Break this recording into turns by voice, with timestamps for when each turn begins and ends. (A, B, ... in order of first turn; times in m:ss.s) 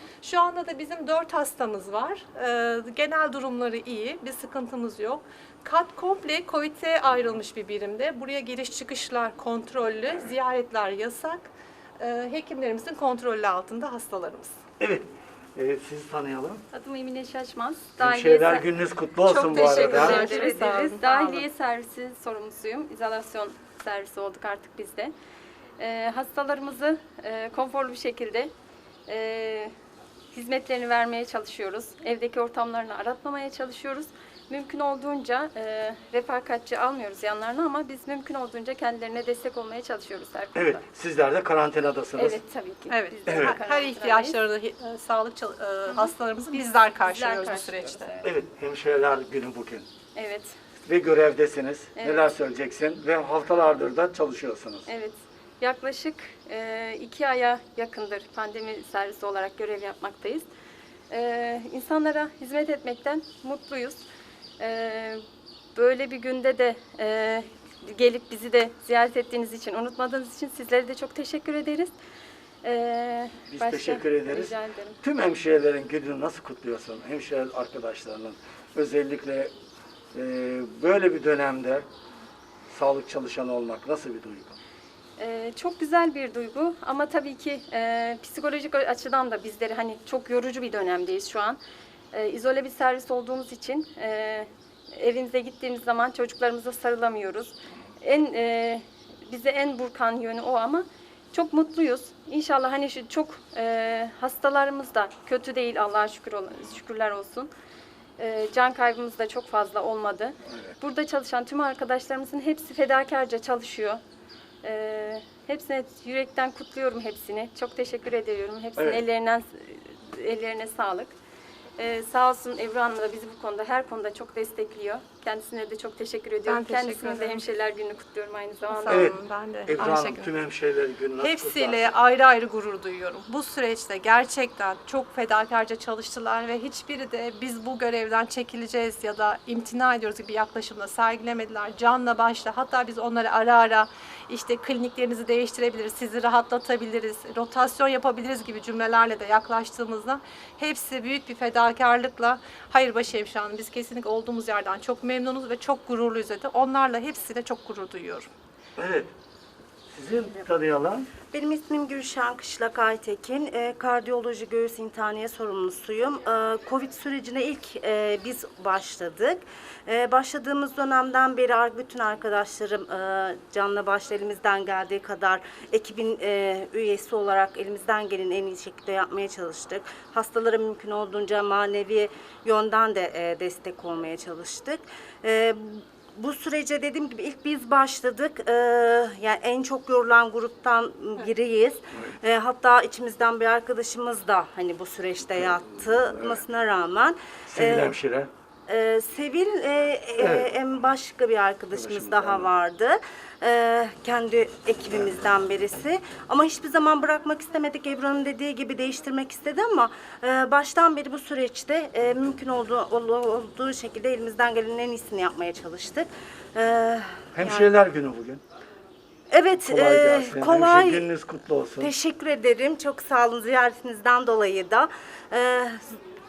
0:00.2-0:11.5 A
0:12.0-0:14.5 A
0:14.8-0:16.6 B
0:16.7-0:25.1 C
0:18.0-0:20.4 B
0:19.6-0:21.4 A
0:25.8-0:28.5 C
0:29.1-0:29.7 C
0:30.3-0:40.8 C
0:40.6-0:42.4 B
0:42.2-0:44.4 C
0:42.9-0:48.2 A
0:43.3-0:43.6 B
0:45.9-0:48.2 C
0:48.2-0:49.9 B
0:50.1-0:50.6 C
0:50.8-0:54.9 B
0:52.0-0:52.3 C
0:54.9-1:00.5 C
1:01.1-1:04.0 C
1:04.6-1:05.2 C
1:05.8-1:11.9 C
1:12.6-1:15.0 C
1:13.5-1:19.5 B
1:20.1-1:21.9 B
1:22.7-1:24.6 B
1:25.2-1:31.6 C
1:32.1-1:47.5 C
1:48.2-1:54.0 C
1:54.6-2:01.2 C
2:01.8-2:09.1 C
2:06.4-2:07.4 A
2:08.7-2:10.3 A
2:08.9-2:11.9 B
2:11.2-2:38.3 A
2:38.8-2:39.1 B
2:39.9-2:41.1 B
2:41.3-3:17.9 D
3:17.5-3:18.3 B
3:18.7-3:37.7 D
3:20.2-3:20.5 B
3:21.7-3:22.5 B
3:37.4-3:38.4 B
3:39.3-3:41.1 D
3:39.6-3:41.9 B
3:41.8-3:45.8 D